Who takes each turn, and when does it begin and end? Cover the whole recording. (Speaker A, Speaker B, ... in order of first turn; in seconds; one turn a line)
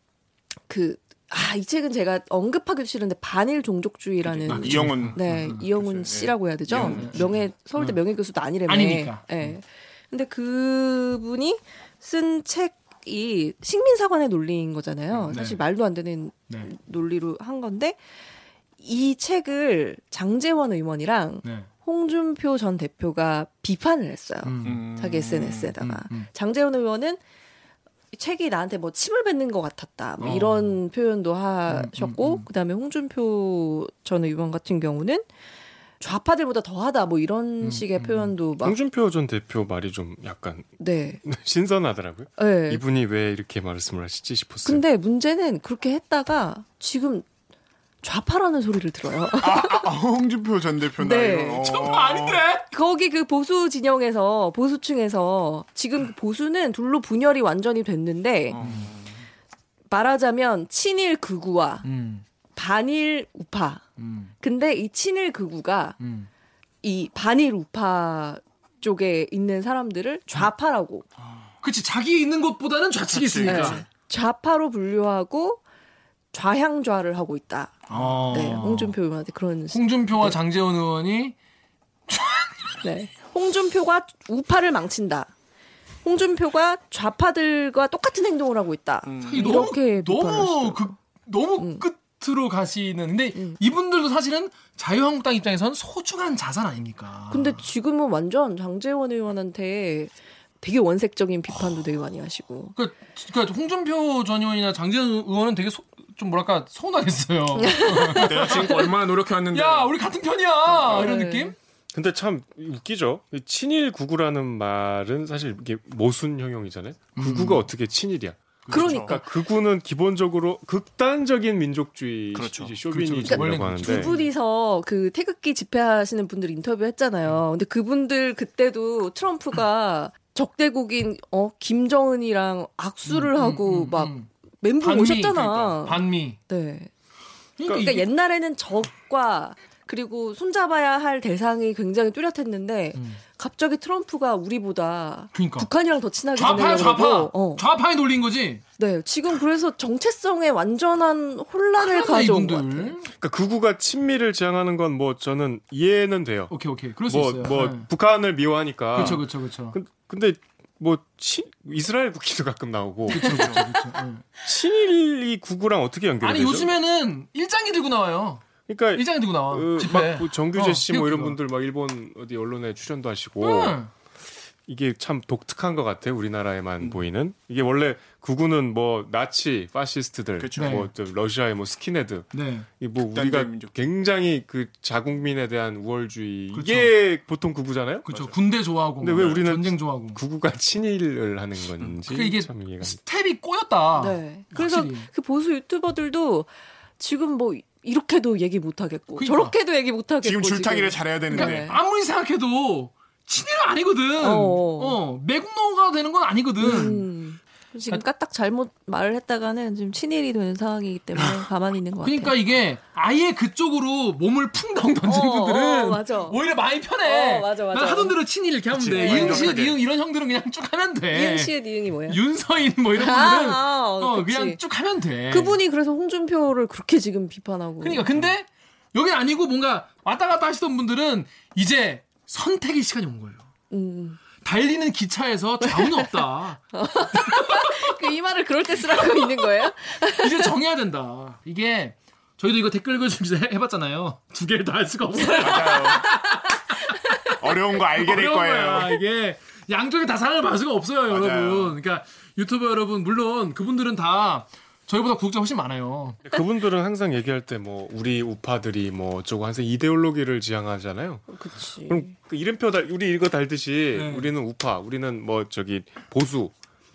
Speaker A: 0.7-18.0
Speaker B: 4.2-7.4
Speaker C: 4.5-5.6
Speaker C: 6.8-7.2
Speaker C: 8.7-9.5
Speaker C: 15.3-15.6
Speaker A: 18.8-27.2
Speaker C: 21.4-21.7
Speaker C: 24.4-24.8
Speaker B: 24.6-25.7
Speaker C: 25.8-26.3
Speaker A: 28.1-35.3
Speaker C: 30.2-30.8
Speaker C: 31.7-32.5
Speaker A: 36.0-38.8
Speaker C: 37.6-38.3
Speaker D: 38.6-44.8
Speaker A: 40.8-41.2
Speaker A: 42.4-42.8
Speaker A: 44.6-47.3
Speaker A: 48.0-49.9
Speaker B: 49.4-52.5
Speaker A: 51.0-51.6
Speaker C: 51.6-52.7
Speaker A: 52.7-58.6
Speaker B: 58.5-59.3
Speaker C: 58.6-58.9
Speaker A: 59.9-61.9
Speaker C: 61.8-62.2
Speaker A: 62.5-63.8
Speaker C: 64.0-64.3
Speaker A: 64.4-66.0
Speaker C: 66.0-66.3
Speaker A: 66.8-71.1
Speaker B: 71.2-71.5
Speaker C: 71.6-73.8
Speaker B: 73.2-73.9
Speaker A: 73.5-75.6
Speaker A: 76.3-80.4
Speaker C: 77.9-79.0
Speaker C: 79.7-81.3
Speaker C: 82.1-82.7
Speaker A: 82.8-85.3
Speaker A: 86.0-90.9
Speaker B: 89.1-89.7
Speaker C: 89.3-97.7
Speaker A: 91.6-91.9
Speaker A: 97.3-102.8
Speaker C: 102.8-108.9
Speaker A: 107.6-108.7
Speaker B: 108.1-109.9
Speaker C: 109.5-111.5
Speaker A: 110.7-111.5
Speaker D: 111.9-124.1
Speaker C: 117.2-117.7
Speaker B: 118.7-119.1
Speaker A: 118.7-119.3
Speaker B: 122.3-122.7
Speaker C: 122.9-124.3
Speaker A: 123.3-136.9
Speaker C: 133.1-134.3
Speaker C: 134.8-136.4
Speaker C: 137.6-138.1
Speaker A: 137.7-147.6
Speaker C: 142.9-143.2
Speaker C: 145.3-145.7
Speaker C: 146.3-148.6
Speaker A: 148.8-152.9
Speaker C: 151.8-153.1
Speaker D: 153.1-156.5
Speaker C: 156.5-157.9
Speaker D: 157.1-163.7
Speaker C: 158.9-159.8
Speaker C: 163.1-164.2
Speaker B: 163.2-163.6
Speaker D: 164.4-166.8
Speaker C: 166.2-171.4
Speaker D: 168.7-173.8
Speaker C: 173.4-173.9
Speaker D: 174.7-188.1
Speaker B: 180.4-180.9
Speaker C: 180.6-180.9
Speaker C: 182.3-182.7
Speaker B: 183.1-183.7
Speaker C: 186.5-186.9
Speaker C: 188.1-190.2
Speaker D: 189.0-193.0
Speaker C: 191.8-195.1
Speaker A: 194.0-201.8
Speaker C: 199.2-199.5
Speaker B: 200.2-201.8
Speaker C: 201.3-207.1
Speaker A: 204.2-205.0
Speaker A: 206.6-212.3
Speaker C: 212.0-221.6
Speaker A: 215.1-216.4
Speaker A: 217.0-218.2
Speaker B: 218.7-219.8
Speaker A: 218.9-219.6
Speaker A: 221.1-222.2
Speaker C: 222.1-225.6
Speaker A: 222.9-224.6
Speaker A: 225.3-228.1
Speaker C: 227.8-233.4
Speaker A: 233.7-234.2
Speaker C: 234.4-237.7
Speaker A: 235.7-236.0
Speaker A: 236.7-240.5
Speaker C: 239.0-239.4
Speaker C: 240.2-247.2
Speaker A: 245.1-247.0
Speaker B: 245.3-246.1
Speaker B: 247.4-249.0
Speaker C: 247.9-256.2
Speaker B: 251.1-251.8
Speaker D: 256.2-261.3
Speaker A: 261.3-262.1
Speaker D: 261.9-266.5
Speaker C: 263.9-264.3